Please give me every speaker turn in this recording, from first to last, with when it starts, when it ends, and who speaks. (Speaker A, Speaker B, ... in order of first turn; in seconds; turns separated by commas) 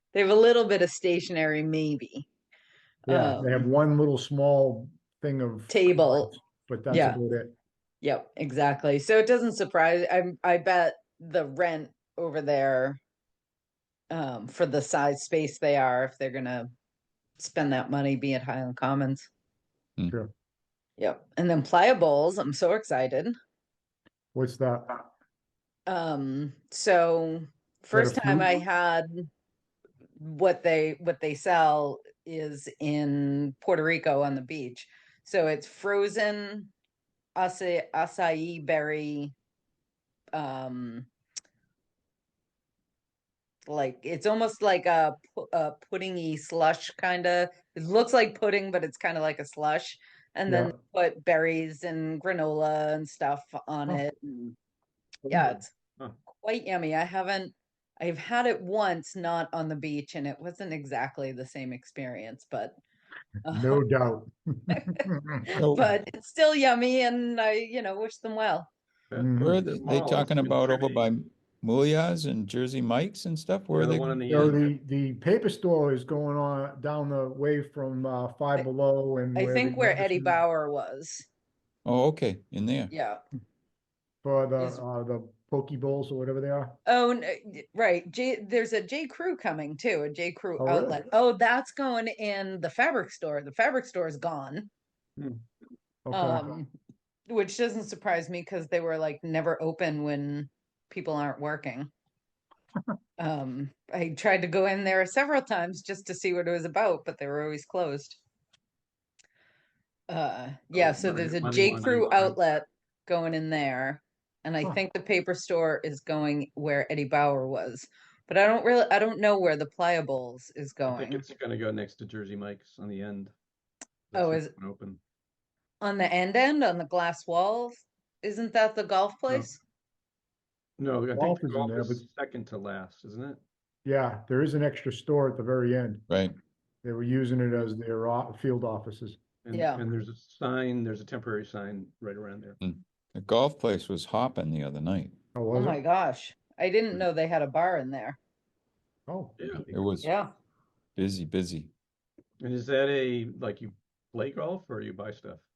Speaker A: 0.1-2.3, Speaker A: 3.1-3.6, Speaker B: 3.1-7.5, Speaker A: 5.7-6.3, Speaker A: 6.9-7.2, Speaker A: 8.0-13.0, Speaker A: 14.1-16.7, Speaker A: 17.4-19.3, Speaker A: 21.0-23.4, Speaker B: 24.3-25.0, Speaker A: 25.9-29.3, Speaker B: 27.9-28.6, Speaker A: 30.2-36.7, Speaker A: 37.4-39.3, Speaker A: 40.3-41.1, Speaker A: 43.7-54.6, Speaker B: 50.5-50.7, Speaker A: 55.3-55.7, Speaker A: 56.3-62.8, Speaker A: 63.4-63.8, Speaker B: 63.5-65.5, Speaker A: 64.7-68.7, Speaker C: 65.5-65.9, Speaker D: 69.1-71.1, Speaker B: 69.2-69.6, Speaker C: 69.4-74.6, Speaker D: 73.7-74.7, Speaker B: 74.3-80.4, Speaker A: 79.3-81.3, Speaker C: 81.8-82.9, Speaker A: 82.9-83.2, Speaker B: 84.2-86.8, Speaker A: 86.9-94.7, Speaker B: 90.6-91.0, Speaker D: 95.2-95.4, Speaker B: 96.1-96.6, Speaker A: 96.1-96.7, Speaker A: 97.3-101.9, Speaker A: 103.2-108.2, Speaker A: 110.1-121.3, Speaker D: 110.7-112.4, Speaker D: 120.9-123.3, Speaker D: 124.1-125.0, Speaker A: 124.1-124.5, Speaker A: 125.8-129.6, Speaker D: 130.8-133.4, Speaker B: 131.1-132.0, Speaker B: 133.8-136.1, Speaker C: 136.1-136.4, Speaker B: 136.8-139.2, Speaker D: 139.4-142.6, Speaker A: 139.5-139.8, Speaker C: 142.6-145.2, Speaker B: 145.3-145.8, Speaker A: 145.5-148.2, Speaker B: 149.1-149.4, Speaker D: 149.4-149.8, Speaker C: 149.5-150.1, Speaker A: 150.0-150.3, Speaker C: 151.0-151.7, Speaker D: 152.4-155.4